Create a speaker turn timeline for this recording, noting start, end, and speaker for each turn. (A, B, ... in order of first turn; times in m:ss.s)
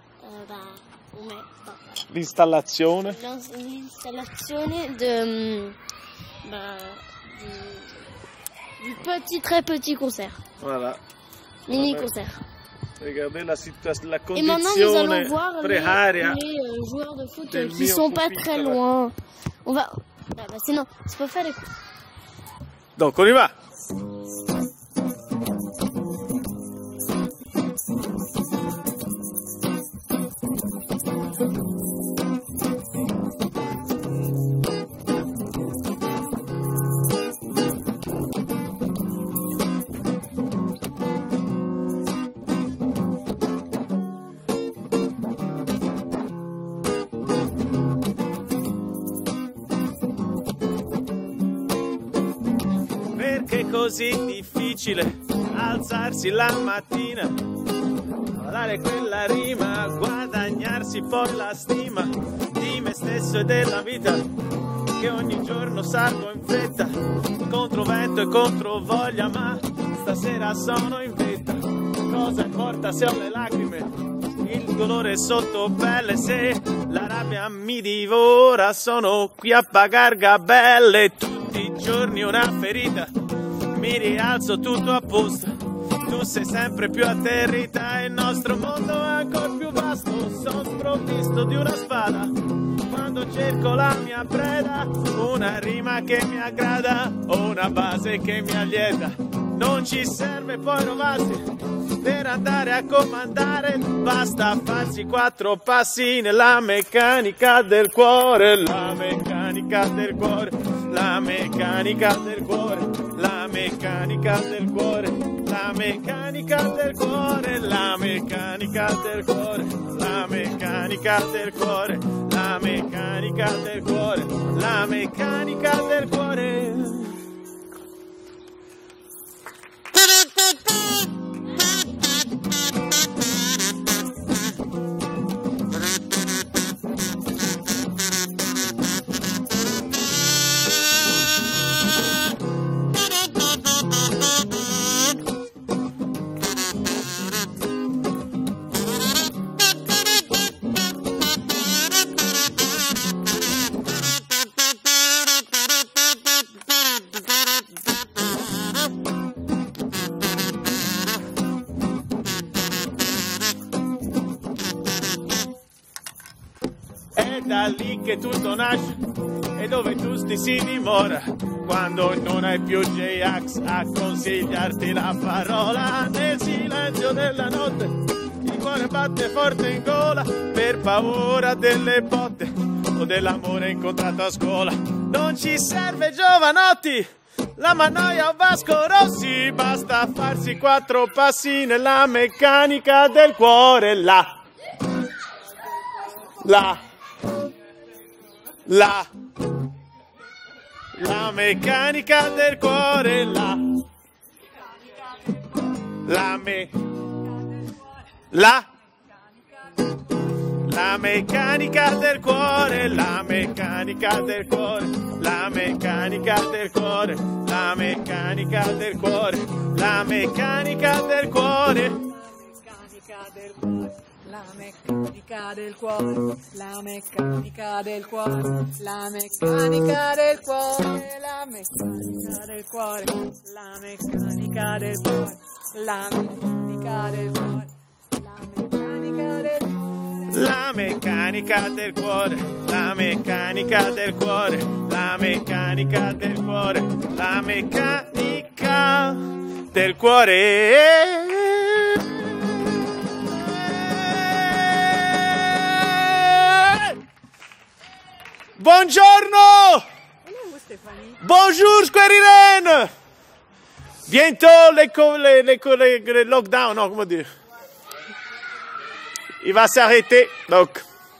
0:00.2-0:02.0 A
0:02.1-0:03.2 B
0:03.0-0:05.8 A
0:06.4-0:08.1 A
0:08.8-0:10.4 A
0:10.6-0:11.0 B
0:11.7-0:12.4 A
0:11.7-0:12.1 B
0:13.0-0:16.4 B
0:14.3-0:21.7 A
0:17.5-0:18.8 B
0:23.0-0:23.5 B
0:53.1-0:57.4 B
0:58.3-1:04.3 B
1:04.9-1:23.1 B
1:23.7-1:41.4 B
1:42.0-2:07.2 B
2:47.2-2:49.0 B
2:49.6-3:14.4 B
3:16.4-3:16.8 B
3:18.7-3:19.1 B
3:20.9-3:23.8 B
3:26.0-3:26.7 B
3:28.3-3:28.7 B
3:30.6-3:42.1 B
3:43.2-3:43.7 C
3:44.4-3:57.7 C
3:58.5-3:59.6 C
4:00.3-4:12.2 B
4:13.8-4:17.0 B
4:18.6-4:19.8 B
4:20.5-4:20.8 C
4:21.2-4:22.9 B
4:24.1-4:27.3 B
4:29.4-4:30.8 B